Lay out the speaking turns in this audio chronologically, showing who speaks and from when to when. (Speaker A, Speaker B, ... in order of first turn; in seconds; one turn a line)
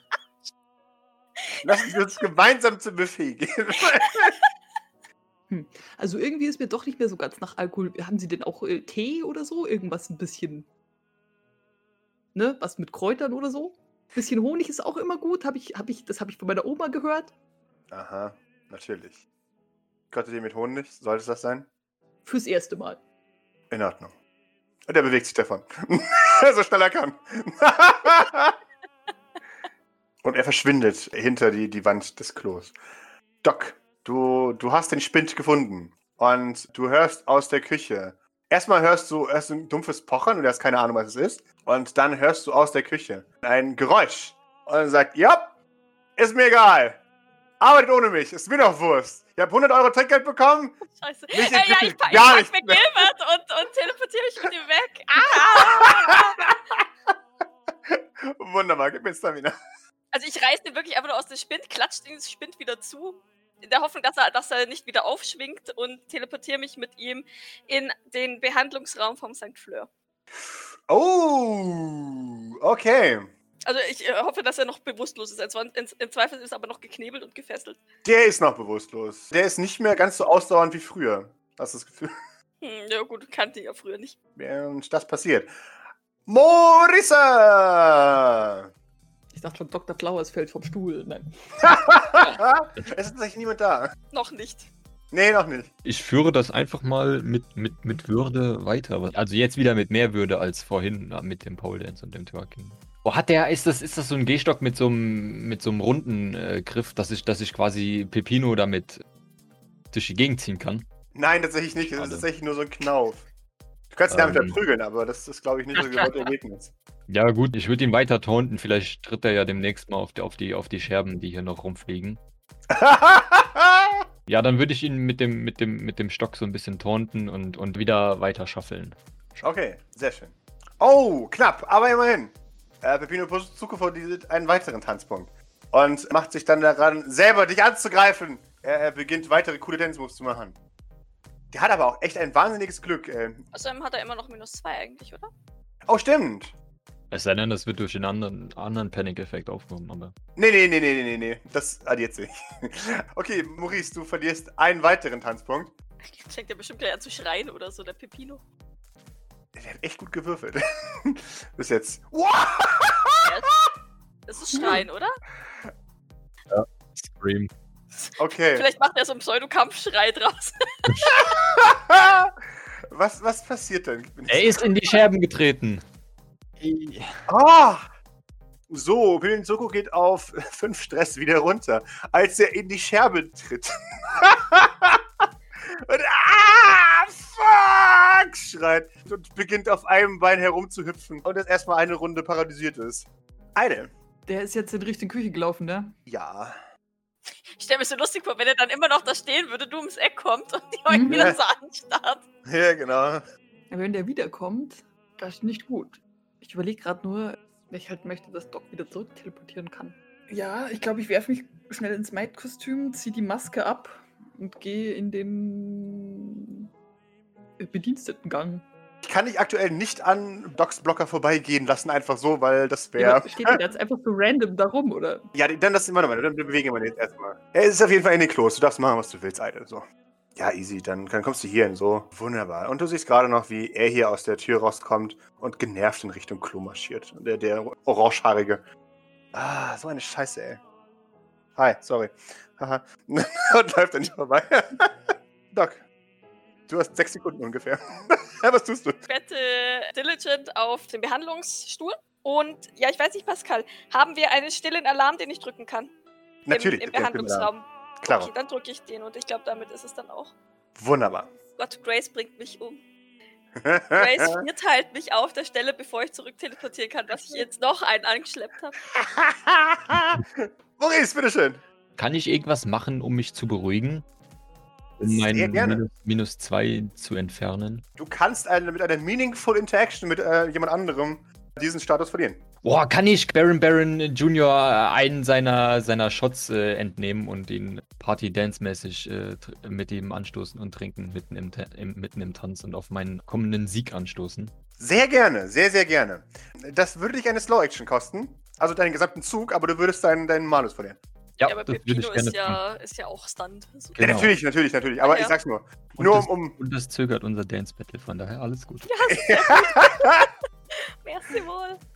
Speaker A: 1.6-4.4
Speaker B: 5.5-10.7
Speaker B: 12.3-17.3
Speaker A: 17.9-19.2
Speaker A: 20.1-21.7
Speaker B: 22.2-23.0
Speaker A: 23.7-24.1
Speaker A: 24.9-28.6
Speaker A: 30.2-32.8
Speaker A: 33.4-45.6
Speaker A: 46.2-47.0
Speaker A: 47.6-50.8
Speaker C: 50.9-56.4
Speaker A: 51.3-53.1
Speaker A: 55.2-57.1
Speaker A: 57.9-59.5
Speaker C: 60.1-69.9
Speaker A: 70.4-73.3
Speaker C: 73.7-77.8
Speaker A: 78.0-82.1
Speaker C: 82.6-84.2
Speaker A: 84.4-85.5
Speaker A: 86.3-88.7
Speaker B: 89.3-91.3
Speaker A: 91.6-93.9
Speaker C: 94.1-94.7
Speaker A: 95.1-95.7
Speaker D: 95.8-109.0
Speaker D: 109.9-110.9
Speaker A: 111.2-113.3
Speaker D: 112.0-112.3
Speaker A: 113.9-116.7
Speaker D: 114.1-114.6
Speaker D: 115.8-116.1
Speaker D: 117.1-122.2
Speaker A: 122.7-124.0
Speaker D: 124.3-129.0
Speaker A: 129.4-140.6
Speaker A: 141.5-143.4
Speaker C: 143.5-145.3
Speaker A: 145.9-146.6
Speaker D: 147.1-150.1
Speaker A: 150.4-155.7
Speaker C: 156.0-158.4
Speaker A: 159.6-163.3
Speaker C: 163.2-163.5
Speaker C: 164.3-165.2
Speaker D: 166.5-167.5
Speaker C: 167.9-171.1
Speaker A: 168.2-168.7
Speaker A: 171.1-172.4
Speaker A: 172.9-175.0
Speaker D: 174.3-175.8
Speaker D: 176.6-177.2
Speaker A: 177.3-177.9
Speaker A: 178.7-193.9
Speaker B: 194.3-195.9
Speaker A: 196.1-196.6
Speaker C: 197.6-202.2
Speaker B: 200.9-201.3
Speaker A: 201.1-201.4
Speaker A: 202.5-203.2
Speaker B: 203.7-216.7
Speaker B: 217.6-218.6
Speaker A: 219.0-223.6
Speaker B: 223.0-225.3
Speaker A: 225.3-238.7
Speaker A: 239.3-240.6
Speaker A: 241.6-245.8
Speaker A: 246.7-249.0
Speaker C: 249.1-255.9
Speaker A: 256.5-257.5
Speaker C: 256.5-260.4
Speaker A: 258.0-258.3
Speaker A: 260.8-261.3
Speaker C: 261.6-262.8
Speaker A: 263.6-264.4
Speaker C: 263.9-268.8
Speaker A: 268.9-271.6
Speaker D: 272.0-274.1
Speaker D: 275.0-277.8
Speaker A: 275.0-275.8
Speaker A: 278.0-282.5
Speaker D: 282.6-294.5
Speaker A: 294.8-301.0
Speaker D: 301.4-302.6
Speaker C: 301.4-304.1
Speaker D: 304.0-304.3
Speaker A: 304.0-306.6
Speaker C: 305.0-305.4
Speaker D: 306.0-308.9
Speaker C: 308.8-310.2
Speaker A: 309.1-310.3
Speaker C: 310.7-311.8